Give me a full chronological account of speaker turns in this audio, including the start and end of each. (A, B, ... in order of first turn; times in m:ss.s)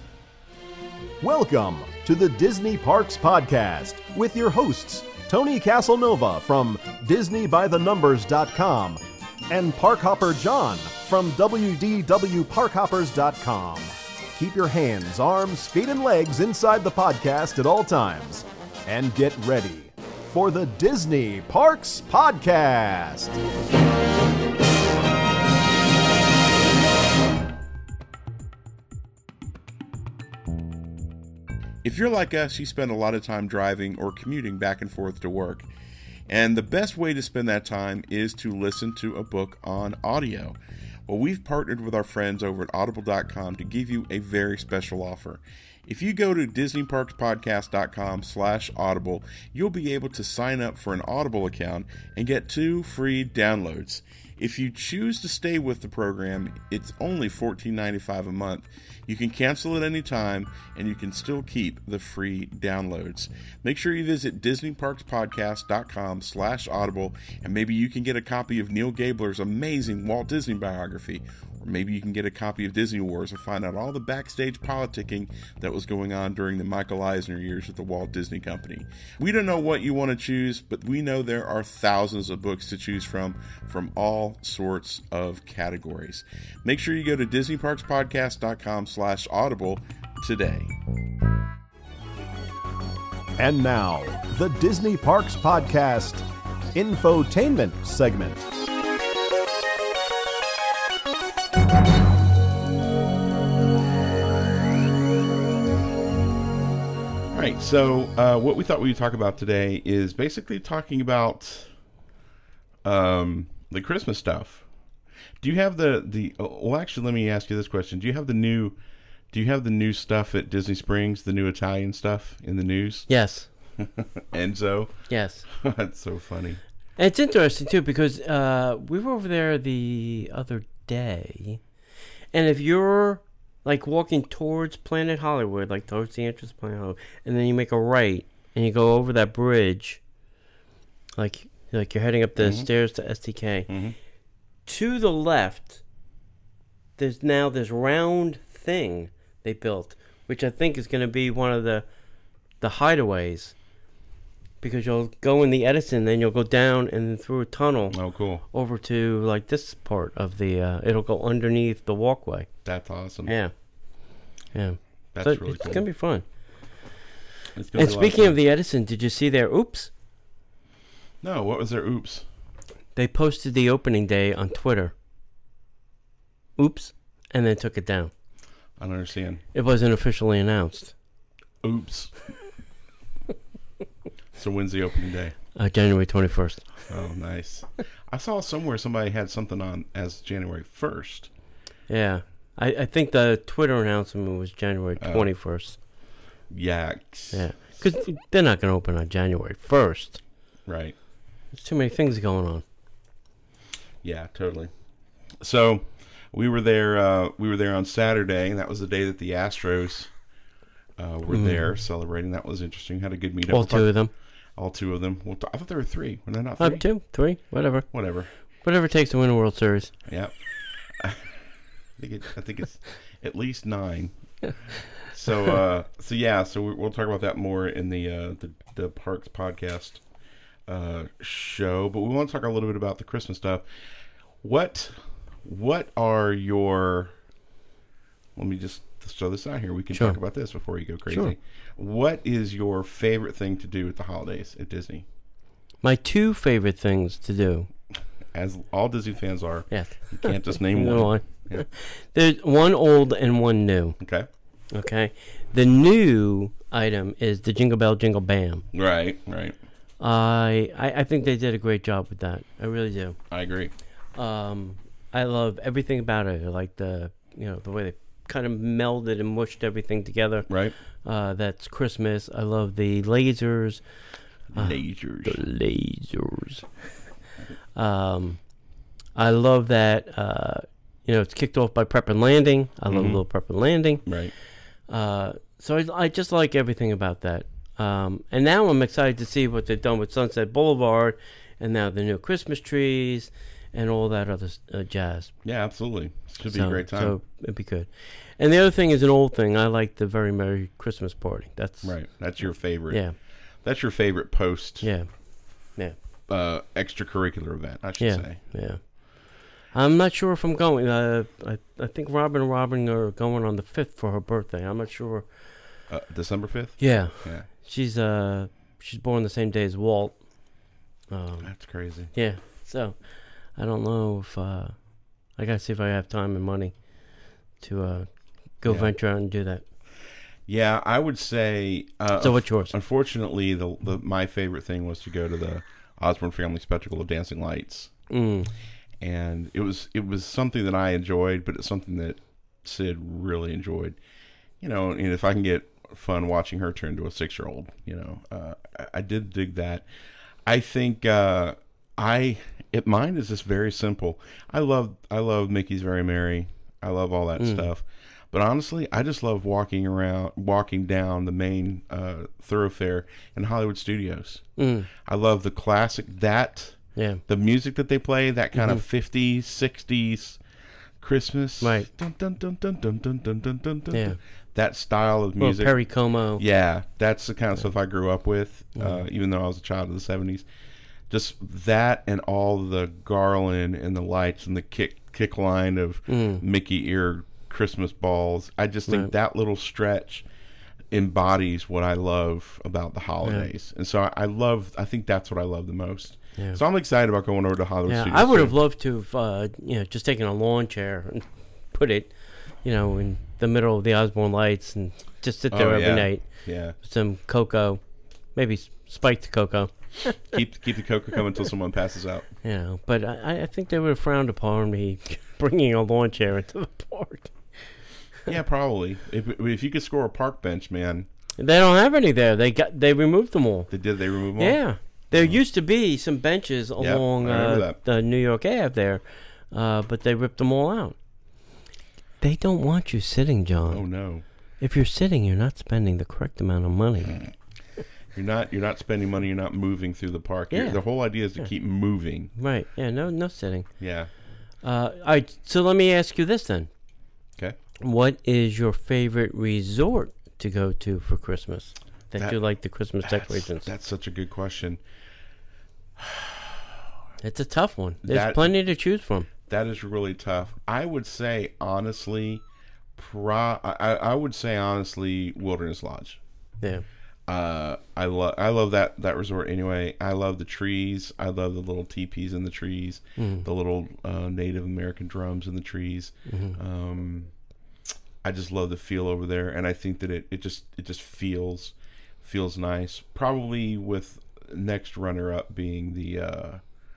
0:01.2-0:23.4 A
0:31.8-0:35.7 B
0:36.3-1:30.7 B
1:33.4-1:38.5 A
1:47.3-1:51.7 B
1:52.8-1:54.6 B
1:55.4-1:58.8 B
1:59.3-2:03.1 B
2:03.1-2:03.5 C
2:03.8-2:06.6 B
2:05.1-2:05.4 C
2:07.0-2:11.6 C
2:12.3-2:20.0 C
2:21.2-2:23.7 C
2:22.4-2:22.7 B
2:23.7-2:24.0 B
2:24.6-2:25.8 C
2:27.0-2:31.8 C
2:32.6-2:33.5 C
2:34.6-2:38.0 C
2:37.9-2:38.4 B
2:38.5-2:42.5 C
2:42.6-2:43.3 B
2:43.3-2:43.5 C
2:44.5-2:46.2 C
2:45.1-2:45.8 B
2:47.5-2:48.4 B
2:47.7-2:49.9 C
2:51.2-2:52.3 B
2:53.0-2:54.9 C
2:56.6-2:58.1 C
2:58.8-2:59.4 B
2:59.5-3:00.9 C
3:01.6-3:02.1 B
3:04.3-3:05.4 B
3:05.5-3:06.6 C
3:06.9-3:11.3 B
3:11.9-3:15.8 C
3:15.0-3:15.3 B
3:16.5-3:17.4 B
3:17.3-3:20.2 C
3:20.6-3:21.0 B
3:21.5-3:22.6 C
3:24.0-3:24.7 B
3:25.4-3:30.1 B
3:31.0-3:33.9 B
3:31.3-3:31.6 C
3:33.5-3:34.1 C
3:34.6-3:36.8 B
3:36.6-3:37.9 C
3:37.9-3:38.3 B
3:38.6-3:39.9 C
3:40.1-3:40.3 B
3:41.0-3:41.4 B
3:42.0-3:44.1 B
3:45.0-3:50.0 B
3:50.7-3:53.6 B
3:54.4-3:57.1 B
3:58.4-4:05.0 B
4:01.1-4:01.3 C
4:05.8-4:07.7 C
4:08.3-4:11.6 B
4:09.7-4:14.0 C
4:14.0-4:14.3 B
4:14.7-4:18.6 C
4:18.7-4:19.6 B
4:20.0-4:23.2 C
4:23.3-4:23.7 B
4:24.1-4:30.5 C
4:30.5-4:30.7 B
4:31.0-4:33.8 C
4:34.5-4:35.4 B
4:34.5-4:36.7 C
4:37.7-4:38.4 C
4:39.1-4:44.0 C
4:42.9-4:43.2 B
4:44.0-4:44.3 B
4:44.9-4:55.3 C
4:55.4-4:57.2 B
4:56.4-5:02.0 C
5:01.8-5:03.0 B
5:02.9-5:03.1 C
5:03.6-5:04.9 B
5:04.8-5:05.1 C
5:06.3-5:08.4 B
5:08.0-5:09.0 C
5:09.7-5:15.3 C
5:15.9-5:17.5 B
5:16.8-5:20.2 C
5:21.1-5:21.5 C
5:21.4-5:22.1 B
5:22.1-5:23.0 C
5:23.5-5:24.8 C
5:25.4-5:26.7 C
5:27.6-5:28.1 C
5:28.6-5:29.6 C
5:28.6-5:28.9 B
5:30.5-5:37.9 B
5:32.2-5:32.7 C
5:38.1-5:38.5 C
5:39.0-5:44.0 B
5:44.6-5:49.8 B
5:50.4-6:04.4 B
5:57.4-5:57.7 C
6:04.6-6:04.9 C
6:05.0-6:10.4 B
6:07.0-6:07.2 C
6:08.6-6:08.8 C
6:11.0-6:15.8 B
6:11.6-6:11.9 C
6:13.9-6:14.2 C
6:15.4-6:16.4 C
6:16.4-6:20.4 B
6:18.8-6:19.0 C
6:21.1-6:30.2 B
6:26.1-6:26.4 C
6:30.9-6:38.6 B
6:37.9-6:42.1 C
6:42.6-6:46.2 C
6:45.5-6:46.8 B
6:46.8-6:47.8 C
6:48.3-6:50.2 C
6:50.2-6:52.3 B
6:52.4-6:57.5 C
6:58.2-7:01.1 B
7:01.4-7:03.7 C
7:03.7-7:04.6 B
7:04.4-7:11.0 C
7:05.1-7:05.4 B
7:06.8-7:07.8 B
7:12.2-7:13.8 C
7:13.7-7:14.2 B
7:14.6-7:17.2 C
7:18.1-7:22.3 B
7:20.5-7:20.8 C
7:22.4-7:23.7 C
7:23.8-7:24.1 B
7:24.6-7:26.7 C
7:27.8-7:33.7 C
7:33.0-7:34.8 B
7:36.0-7:36.8 B
7:37.2-7:39.3 C
7:38.0-7:38.5 B
7:39.4-7:42.4 B
7:43.0-7:46.2 B
7:47.3-7:57.3 B
7:53.2-7:53.4 C
7:56.3-7:56.6 C
7:58.2-8:06.6 B